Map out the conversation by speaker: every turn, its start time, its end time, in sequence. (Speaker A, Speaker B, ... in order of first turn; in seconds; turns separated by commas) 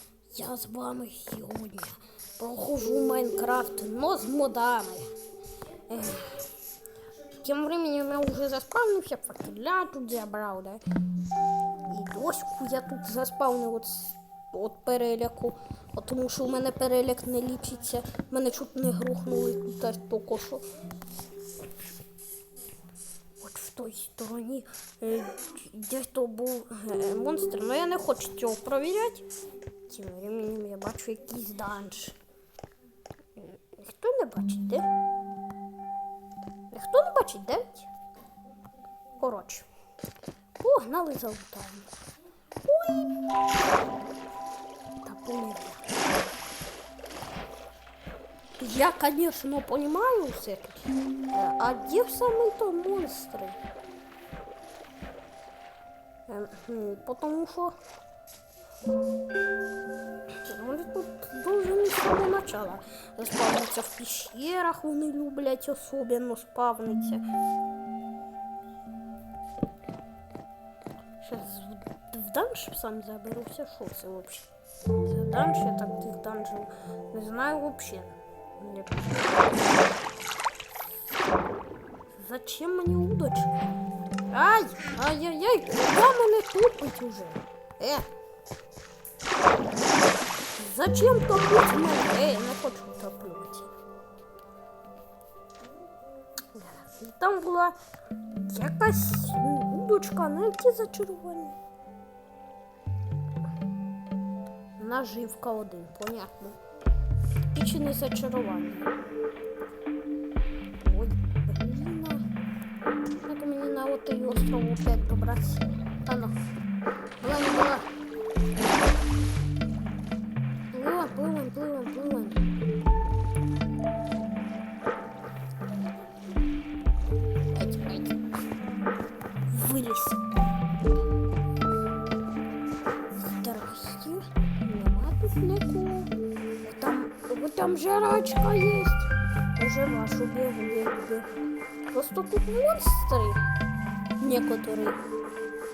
Speaker A: 0.3-5.1, Speaker A: 5.9-6.5, Speaker A: 7.4-10.8, Speaker A: 11.9-20.7, Speaker A: 23.4-29.3, Speaker A: 29.9-32.2, Speaker A: 33.4-34.9, Speaker A: 36.7-37.9, Speaker A: 39.2-39.7, Speaker A: 40.6-41.9, Speaker A: 42.6-43.2, Speaker A: 45.0-45.8, Speaker A: 48.6-53.6, Speaker A: 56.3-57.8, Speaker A: 60.5-67.2, Speaker A: 71.2-74.5, Speaker A: 75.0-79.8, Speaker A: 82.1-83.6, Speaker A: 84.3-88.1, Speaker A: 90.6-93.7, Speaker A: 96.5-97.8, Speaker A: 98.4-101.6, Speaker A: 104.8-106.6, Speaker A: 107.5-108.9, Speaker A: 110.8-112.3, Speaker A: 113.2-116.3, Speaker A: 117.2-117.9, Speaker A: 120.7-122.4, Speaker A: 127.5-128.2, Speaker A: 129.5-130.3, Speaker A: 133.2-141.4, Speaker A: 141.9-143.4, Speaker A: 144.2-145.0